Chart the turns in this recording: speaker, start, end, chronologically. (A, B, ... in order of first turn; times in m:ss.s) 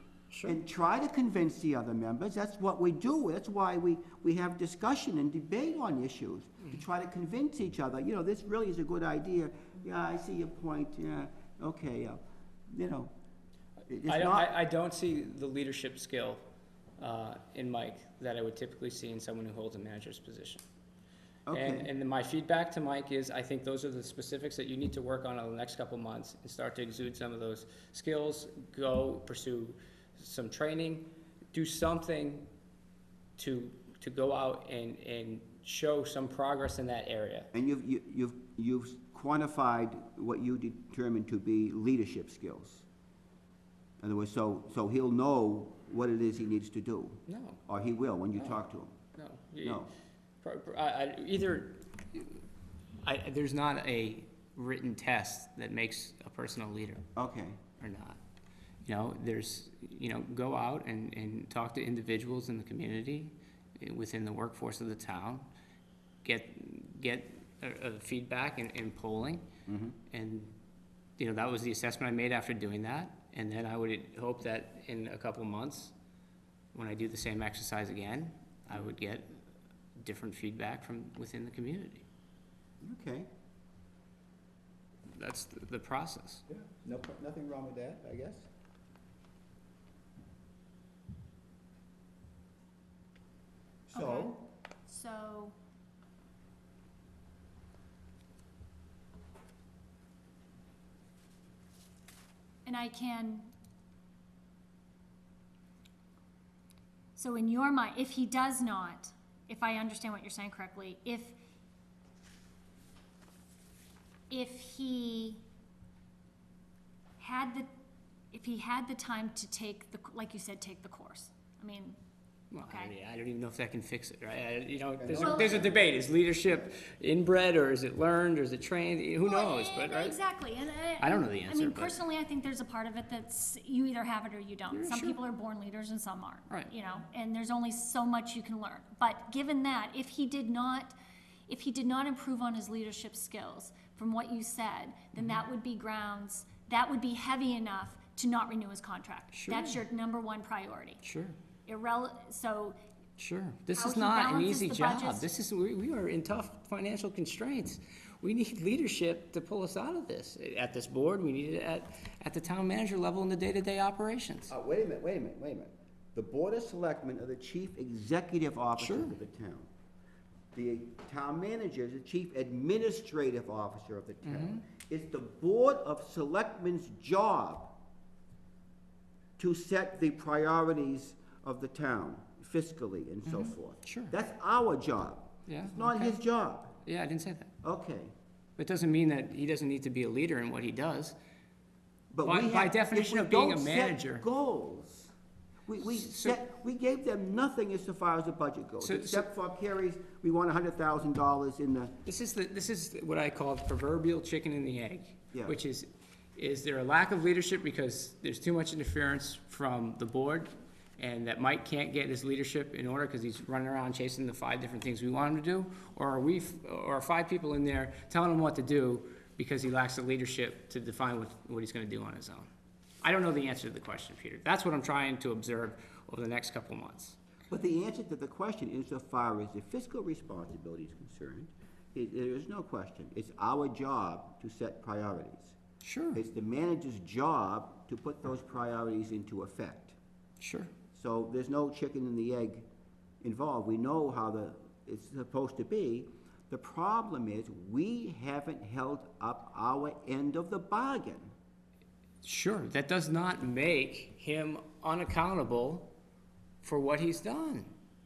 0:00.3-0:00.6 A
0:00.4-0:13.1 B
0:13.9-0:14.5 B
0:14.1-0:16.4 A
0:17.0-0:20.6 A
0:21.5-0:21.9 B
0:21.5-0:32.5 A
0:33.4-0:37.5 A
0:37.5-0:42.9 B
0:44.0-0:49.0 B
0:47.3-0:47.6 A
0:49.2-0:49.9 A
0:49.6-0:49.9 B
0:50.4-0:52.4 A
0:53.0-0:57.0 A
0:57.2-0:57.6 B
0:57.8-0:58.2 A
0:58.8-1:05.5 A
1:06.2-1:09.5 A
1:09.7-1:10.0 B
1:10.1-1:10.6 A
1:11.2-1:15.9 A
1:16.7-1:19.4 A
1:20.0-1:22.1 A
1:22.8-1:23.3 B
1:25.1-1:26.4 A
1:26.5-1:28.5 B
1:33.9-1:34.4 B
1:33.9-1:35.6 C
1:42.6-1:43.5 C
1:47.2-1:51.4 C
1:54.3-1:55.4 C
1:57.2-1:57.7 C
1:58.3-2:02.0 C
2:02.5-2:10.2 A
2:02.6-2:02.9 C
2:05.0-2:05.8 B
2:05.2-2:05.6 C
2:09.2-2:21.0 C
2:11.0-2:12.0 A
2:14.7-2:15.2 A
2:21.5-2:31.0 C
2:25.2-2:25.4 A
2:29.3-2:29.8 A
2:31.0-2:31.4 A
2:31.7-2:32.8 C
2:33.2-2:44.5 A
2:33.7-2:35.3 C
2:44.5-2:49.7 B
2:48.8-2:49.2 A
2:50.5-2:57.8 B
2:54.2-2:54.6 A
2:59.4-3:06.8 B
3:03.3-3:04.1 A
3:05.5-3:06.2 A
3:06.8-3:07.5 A
3:07.6-3:08.1 B
3:08.6-3:11.2 A
3:12.1-3:15.1 B
3:12.2-3:14.2 A
3:15.7-3:22.0 B
3:15.8-3:16.4 A
3:18.8-3:19.3 A
3:22.1-3:42.5 A
3:43.0-3:47.2 A
3:47.5-3:55.6 B
3:55.8-3:56.2 A
3:56.1-4:00.0 B
4:00.4-4:00.7 A
4:00.9-4:02.7 B
4:03.2-4:11.3 B
4:12.2-4:15.9 A
4:16.6-4:17.7 A